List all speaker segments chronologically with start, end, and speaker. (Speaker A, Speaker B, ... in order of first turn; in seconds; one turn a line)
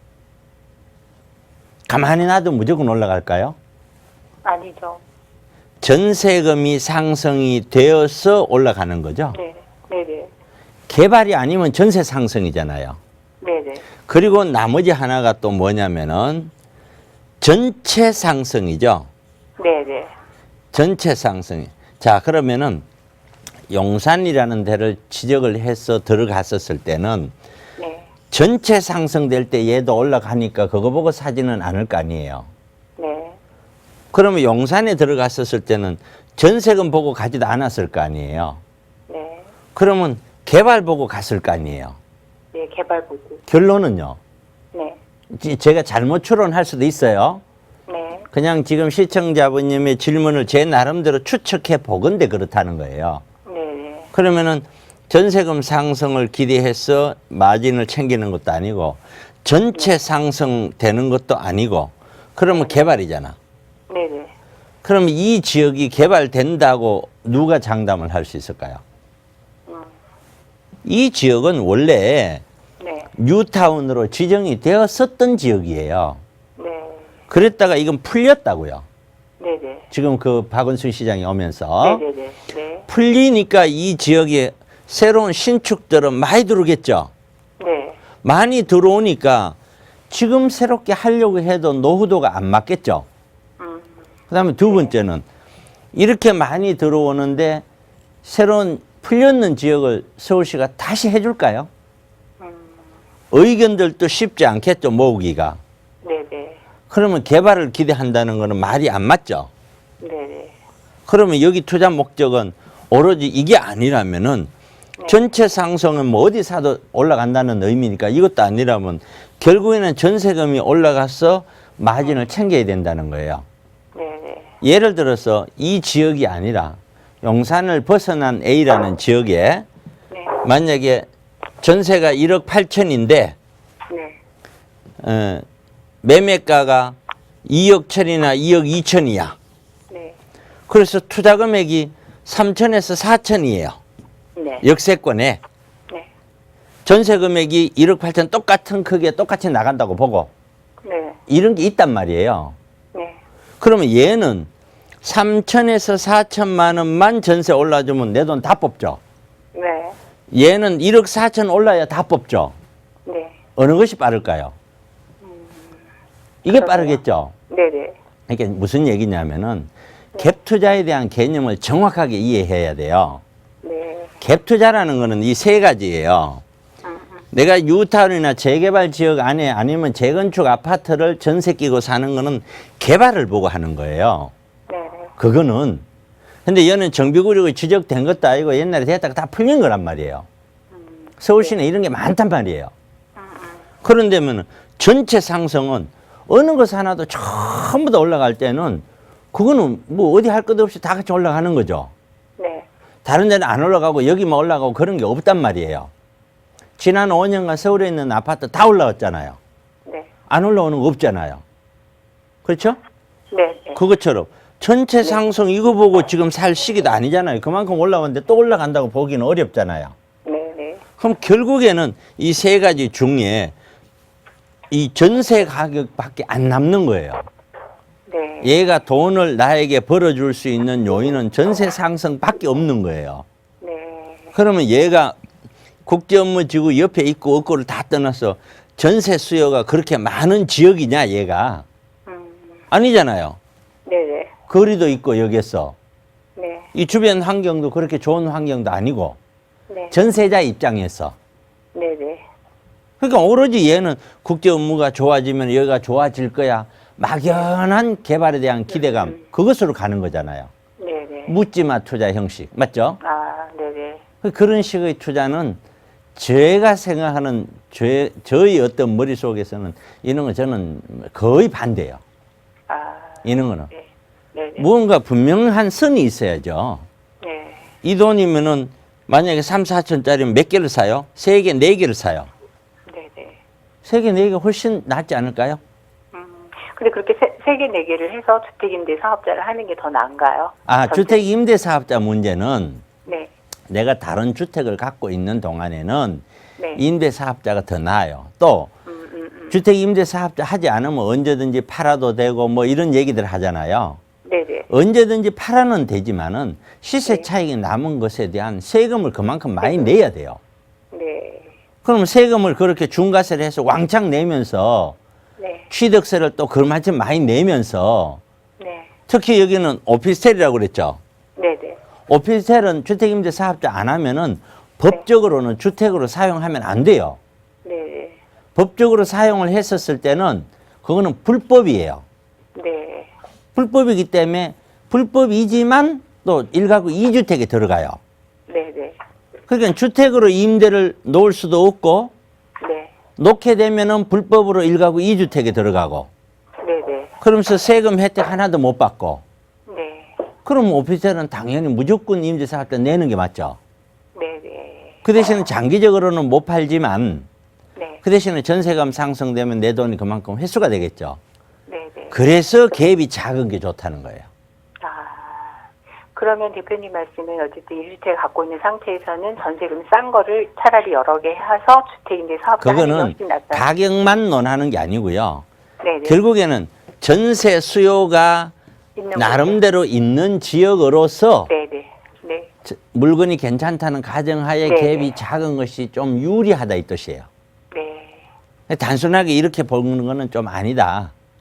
Speaker A: 1.9-3.5
Speaker B: 4.4-5.0
Speaker A: 5.8-9.4
Speaker B: 9.3-10.3
Speaker A: 10.9-13.0
Speaker B: 13.4-13.8
Speaker A: 14.1-16.5
Speaker A: 17.4-19.1
Speaker B: 19.6-20.1
Speaker A: 20.7-22.8
Speaker A: 23.7-27.3
Speaker B: 27.8-28.1
Speaker A: 28.3-32.5
Speaker B: 33.0-33.4
Speaker A: 34.1-38.6
Speaker B: 39.1-39.5
Speaker A: 39.7-42.0
Speaker B: 42.5-43.4
Speaker A: 43.5-44.2
Speaker B: 44.7-45.0
Speaker A: 45.3-47.4
Speaker B: 47.9-48.3
Speaker A: 48.3-53.2
Speaker B: 53.5-54.1
Speaker A: 54.1-63.4
Speaker B: 62.5-62.9
Speaker B: 63.9-64.3
Speaker A: 64.8-68.8
Speaker A: 70.8-72.4
Speaker B: 72.8-73.1
Speaker A: 73.2-76.2
Speaker B: 76.6-77.1
Speaker A: 77.3-78.8
Speaker B: 79.4-79.9
Speaker A: 79.9-82.0
Speaker B: 81.8-82.8
Speaker A: 82.9-87.1
Speaker B: 87.6-88.0
Speaker A: 88.2-89.6
Speaker A: 90.1-93.0
Speaker B: 93.6-94.1
Speaker A: 94.3-95.2
Speaker B: 94.7-94.9
Speaker A: 95.9-97.6
Speaker A: 98.2-101.7
Speaker B: 102.4-102.8
Speaker A: 103.3-105.6
Speaker B: 106.0-106.6
Speaker A: 106.9-109.5
Speaker B: 110.0-110.5
Speaker A: 111.1-114.5
Speaker A: 115.1-123.5
Speaker B: 123.9-124.5
Speaker A: 124.6-129.7
Speaker B: 130.1-130.4
Speaker A: 130.4-131.1
Speaker A: 131.6-133.3
Speaker B: 133.9-134.2
Speaker A: 135.0-135.4
Speaker A: 136.0-139.3
Speaker B: 139.9-140.2
Speaker A: 140.7-143.8
Speaker B: 144.3-144.6
Speaker A: 144.6-145.4
Speaker A: 146.8-150.3
Speaker B: 150.8-151.2
Speaker A: 151.3-152.6
Speaker B: 152.9-153.2
Speaker A: 153.6-154.5
Speaker A: 155.0-159.0
Speaker B: 159.5-160.0
Speaker A: 160.3-162.5
Speaker B: 163.1-163.4
Speaker A: 163.6-164.5
Speaker B: 165.2-165.8
Speaker A: 166.4-167.3
Speaker B: 166.5-168.0
Speaker A: 168.3-173.2
Speaker B: 173.6-174.1
Speaker A: 174.2-176.4
Speaker B: 176.8-177.2
Speaker A: 177.3-184.3
Speaker B: 184.7-185.1
Speaker A: 185.2-185.8
Speaker A: 186.4-190.3
Speaker B: 190.7-191.6
Speaker A: 191.2-192.7
Speaker B: 193.2-193.6
Speaker A: 193.8-201.9
Speaker B: 202.4-202.7
Speaker A: 203.0-205.9
Speaker A: 206.8-209.4
Speaker A: 210.3-211.4
Speaker A: 212.4-212.8
Speaker B: 213.3-213.8
Speaker A: 213.7-219.9
Speaker B: 220.2-220.8
Speaker A: 221.0-223.5
Speaker A: 224.7-227.2
Speaker B: 228.1-228.5
Speaker A: 228.4-233.2
Speaker B: 233.6-234.3
Speaker A: 234.3-235.2
Speaker A: 235.8-241.6
Speaker B: 242.1-242.6
Speaker A: 242.7-243.4
Speaker B: 243.8-244.3
Speaker A: 244.5-245.8
Speaker B: 246.3-246.7
Speaker A: 246.7-249.2
Speaker B: 249.7-250.0
Speaker A: 249.9-251.1
Speaker B: 251.7-252.2
Speaker A: 253.0-260.5
Speaker B: 258.7-259.2
Speaker B: 260.8-261.4
Speaker A: 261.3-263.0
Speaker B: 263.0-264.0
Speaker A: 264.2-265.6
Speaker A: 266.1-272.0
Speaker B: 272.7-274.7
Speaker A: 273.2-273.7
Speaker A: 274.6-276.9
Speaker B: 277.2-277.7
Speaker A: 277.8-282.3
Speaker B: 282.9-283.4
Speaker A: 283.8-285.6
Speaker B: 286.1-291.2
Speaker A: 290.6-292.8
Speaker B: 293.1-293.3
Speaker A: 293.7-296.2
Speaker B: 296.6-296.8
Speaker A: 296.8-298.7
Speaker B: 298.9-299.6
Speaker A: 299.5-304.0
Speaker B: 304.2-304.7
Speaker A: 304.7-310.4
Speaker B: 309.6-309.9
Speaker B: 310.9-311.5
Speaker A: 311.8-315.0
Speaker B: 315.4-315.7
Speaker A: 315.7-318.2
Speaker B: 318.6-318.9
Speaker A: 319.1-321.0
Speaker B: 321.4-321.8
Speaker A: 322.1-327.2
Speaker B: 327.6-328.2
Speaker A: 328.5-332.0
Speaker B: 332.5-333.1
Speaker A: 333.5-338.0
Speaker B: 338.5-339.0
Speaker A: 339.5-342.1
Speaker B: 342.6-342.9
Speaker A: 343.2-346.1
Speaker B: 346.6-347.1
Speaker A: 347.2-349.2
Speaker B: 349.7-350.2
Speaker A: 350.4-353.6
Speaker B: 354.1-355.0
Speaker A: 355.0-357.3
Speaker B: 357.7-358.0
Speaker A: 358.0-361.2
Speaker B: 361.7-362.2
Speaker A: 362.1-364.3
Speaker B: 364.8-373.6
Speaker A: 372.6-375.4
Speaker B: 375.8-376.2
Speaker A: 376.0-378.5
Speaker B: 378.9-379.6
Speaker A: 379.1-381.5
Speaker B: 381.5-382.5
Speaker A: 382.6-387.3
Speaker B: 384.6-385.1
Speaker B: 387.7-388.3
Speaker A: 388.7-391.1